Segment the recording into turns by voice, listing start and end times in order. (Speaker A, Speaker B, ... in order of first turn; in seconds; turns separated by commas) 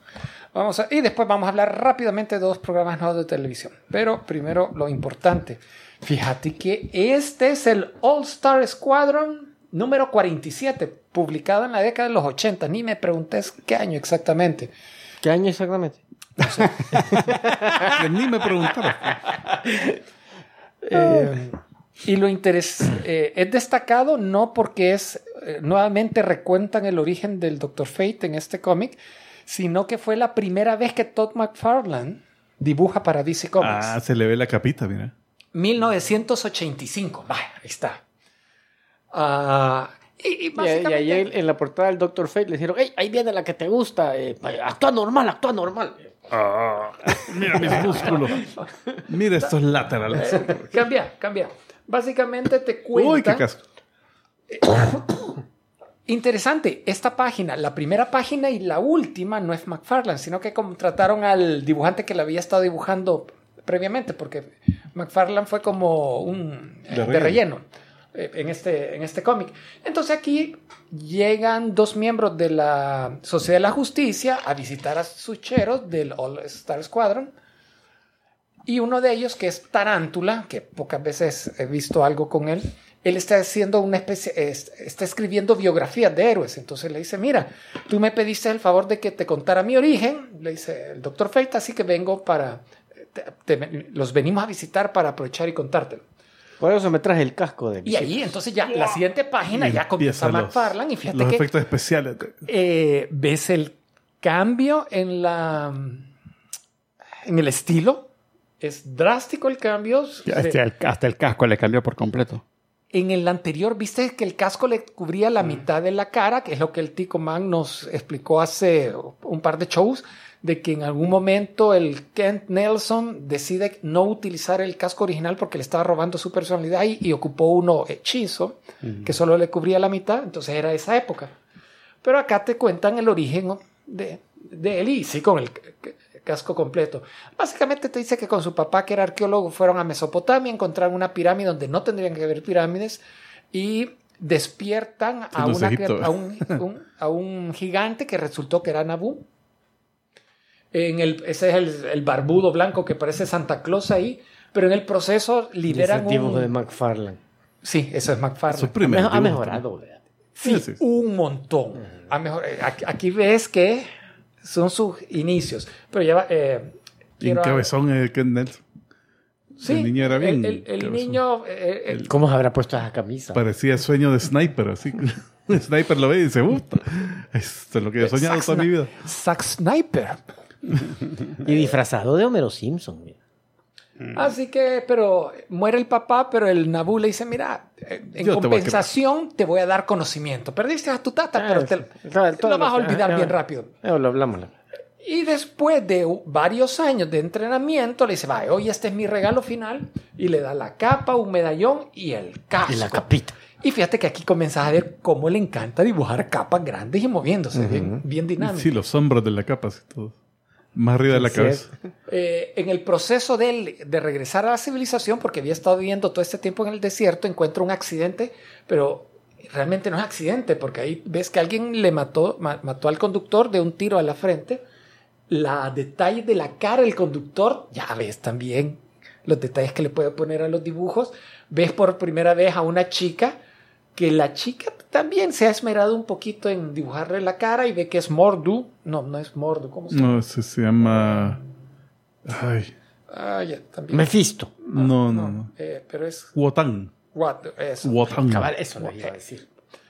Speaker A: 0.5-14.7, Speaker B: 15.2-16.0, Speaker A: 16.4-16.7, Speaker B: 16.9-17.9, Speaker C: 17.8-19.1, Speaker B: 19.5-19.9, Speaker A: 20.9-34.0, Speaker B: 20.9-21.3, Speaker C: 33.6-35.1, Speaker A: 35.5-38.0, Speaker A: 39.1-41.3, Speaker B: 40.5-48.3, Speaker C: 46.6-48.5, Speaker A: 48.0-48.4, Speaker C: 49.1-50.7, Speaker A: 50.1-53.5, Speaker C: 52.9-53.6, Speaker A: 54.5-55.4, Speaker A: 56.1-77.3, Speaker C: 66.9-67.4, Speaker A: 78.7-96.0, Speaker B: 96.6-98.3, Speaker A: 97.8-101.5, Speaker C: 99.5-102.4, Speaker A: 102.4-106.1, Speaker A: 107.2-108.1, Speaker A: 108.6-110.6, Speaker D: 110.2-112.4, Speaker A: 112.9-131.3, Speaker A: 132.0-149.3, Speaker C: 145.3-146.6, Speaker A: 150.7-156.5, Speaker B: 155.7-157.2, Speaker A: 157.6-158.8, Speaker C: 158.5-159.6, Speaker B: 158.8-160.0, Speaker A: 160.3-163.9, Speaker C: 160.4-160.8, Speaker A: 164.4-167.7, Speaker C: 167.2-168.6, Speaker A: 169.6-172.1, Speaker C: 169.6-171.2, Speaker B: 172.1-173.4, Speaker C: 173.3-178.9, Speaker A: 178.0-180.2, Speaker B: 181.4-183.2, Speaker A: 184.1-193.7, Speaker C: 188.2-188.8, Speaker B: 191.3-194.5, Speaker A: 195.0-208.8, Speaker B: 202.7-203.4, Speaker B: 207.5-208.0, Speaker C: 208.4-210.2, Speaker C: 210.7-211.7, Speaker B: 211.1-211.7, Speaker A: 212.1-224.6, Speaker A: 225.3-233.4, Speaker A: 233.9-240.2, Speaker C: 239.9-241.4, Speaker C: 242.2-242.7, Speaker A: 243.1-244.1, Speaker B: 243.9-244.5, Speaker A: 244.6-246.3, Speaker C: 244.7-245.5, Speaker C: 246.3-246.9, Speaker A: 247.1-248.2, Speaker C: 247.8-248.5, Speaker B: 248.2-249.4, Speaker A: 248.8-249.1